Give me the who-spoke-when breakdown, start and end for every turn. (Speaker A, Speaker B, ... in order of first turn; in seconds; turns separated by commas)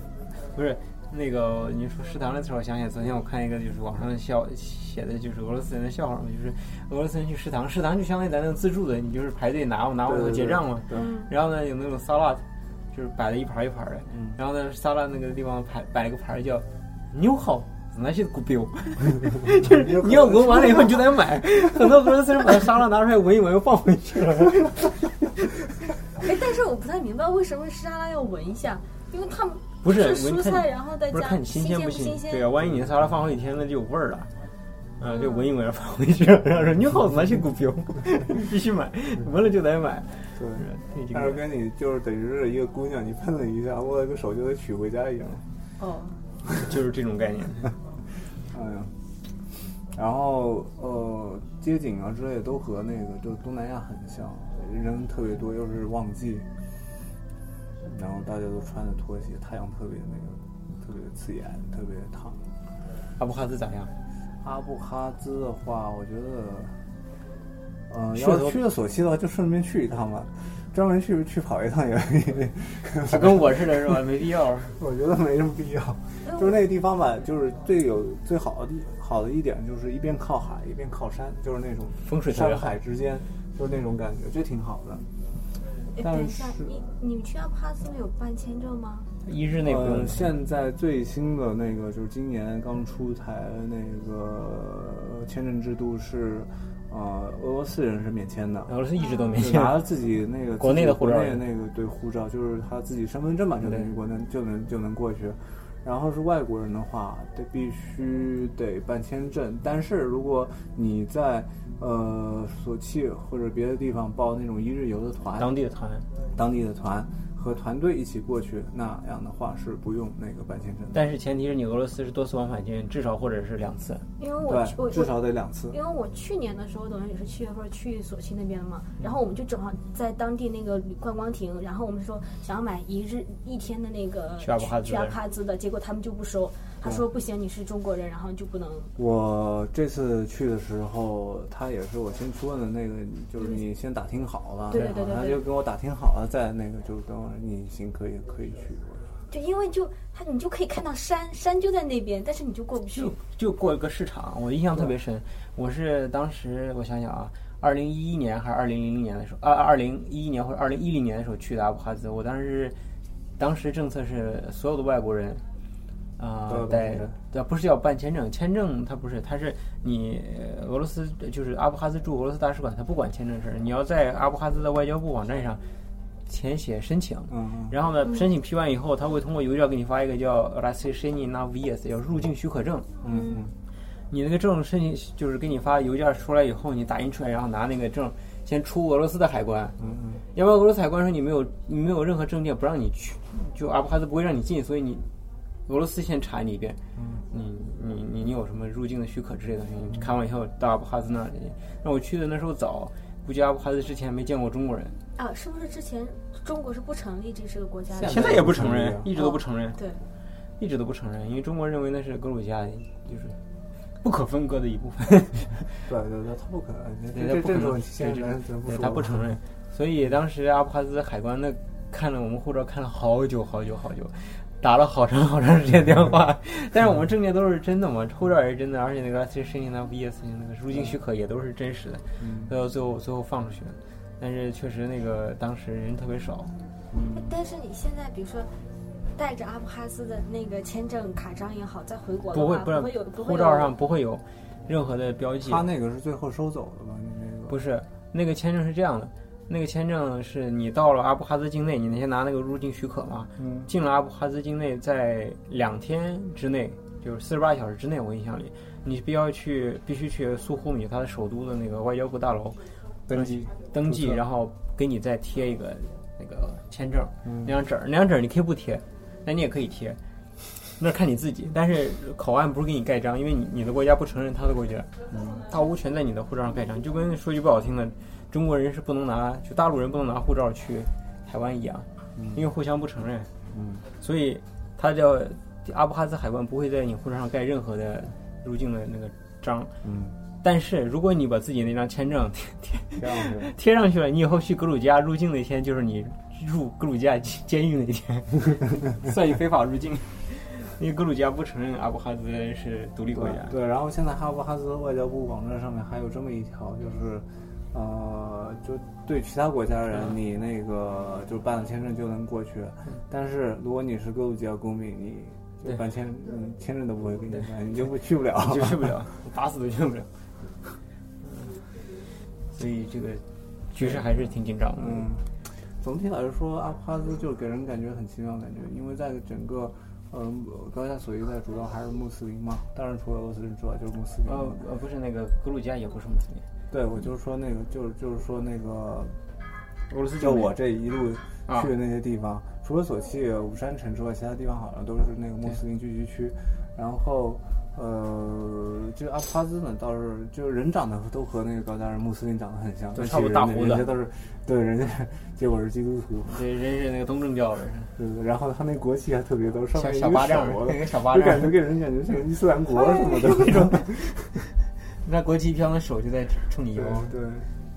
Speaker A: 0.5-25.1, Speaker B: 10.1-11.1, Speaker C: 10.9-11.3, Speaker B: 14.1-14.4, Speaker B: 19.6-21.1, Speaker C: 26.2-32.5, Speaker A: 29.8-34.3, Speaker B: 32.6-33.0, Speaker A: 35.0-41.5, Speaker C: 35.1-35.5, Speaker B: 40.4-45.5, Speaker C: 45.8-46.2, Speaker A: 46.5-47.8, Speaker B: 48.5-48.9, Speaker B: 49.9-56.5, Speaker B: 57.9-62.4, Speaker A: 63.2-63.9, Speaker B: 64.4-66.8, Speaker B: 67.9-74.0, Speaker A: 68.1-68.6, Speaker A: 73.0-74.7, Speaker B: 74.8-85.1, Speaker C: 76.2-76.6, Speaker A: 82.0-82.8, Speaker C: 85.9-89.1, Speaker B: 86.0-86.8, Speaker A: 89.2-90.3, Speaker B: 89.7-98.7, Speaker A: 98.7-99.8, Speaker C: 99.0-99.4, Speaker B: 99.4-115.5, Speaker A: 100.6-101.4, Speaker A: 115.4-116.1, Speaker B: 116.3-121.0, Speaker A: 120.9-124.1, Speaker C: 124.2-138.9, Speaker B: 124.5-125.8, Speaker A: 134.4-135.2, Speaker B: 139.0-149.2, Speaker C: 144.7-145.4, Speaker C: 149.3-153.2, Speaker A: 152.9-162.8, Speaker A: 163.4-165.4, Speaker A: 166.2-175.6, Speaker B: 166.5-167.2, Speaker A: 176.3-182.9, Speaker B: 177.3-177.8, Speaker B: 183.0-183.5, Speaker C: 183.1-183.4, Speaker A: 184.1-189.8, Speaker B: 189.8-190.2, Speaker A: 190.3-195.1, Speaker A: 195.7-196.8, Speaker B: 197.0-197.2, Speaker A: 197.3-205.0, Speaker C: 205.2-208.4, Speaker B: 207.9-209.1, Speaker A: 208.0-209.8, Speaker C: 209.2-210.0, Speaker A: 210.6-213.4, Speaker A: 214.0-215.7, Speaker B: 215.9-219.3, Speaker A: 217.1-236.5, Speaker B: 232.2-232.5, Speaker B: 236.9-237.4, Speaker C: 237.1-238.5, Speaker C: 239.2-243.7, Speaker A: 242.3-245.6, Speaker B: 245.4-247.6, Speaker A: 247.5-262.6, Speaker B: 253.4-253.7, Speaker B: 263.1-264.2, Speaker A: 263.1-283.3, Speaker B: 267.2-267.5, Speaker B: 275.1-275.4, Speaker B: 282.2-282.4, Speaker B: 283.5-283.8, Speaker A: 284.0-289.7, Speaker B: 289.8-290.2, Speaker A: 290.4-303.6, Speaker B: 293.0-293.5, Speaker B: 303.1-319.0, Speaker A: 318.3-320.1, Speaker A: 321.2-321.6, Speaker A: 322.5-325.1, Speaker B: 323.8-324.2, Speaker B: 324.8-325.3, Speaker B: 325.8-334.6, Speaker A: 334.2-336.4, Speaker B: 336.7-339.1, Speaker A: 339.9-340.6, Speaker B: 340.2-356.4, Speaker A: 352.9-353.9, Speaker A: 356.2-357.9, Speaker B: 358.0-364.3, Speaker A: 359.7-361.6, Speaker A: 363.0-364.2, Speaker A: 365.0-367.1, Speaker B: 366.7-367.5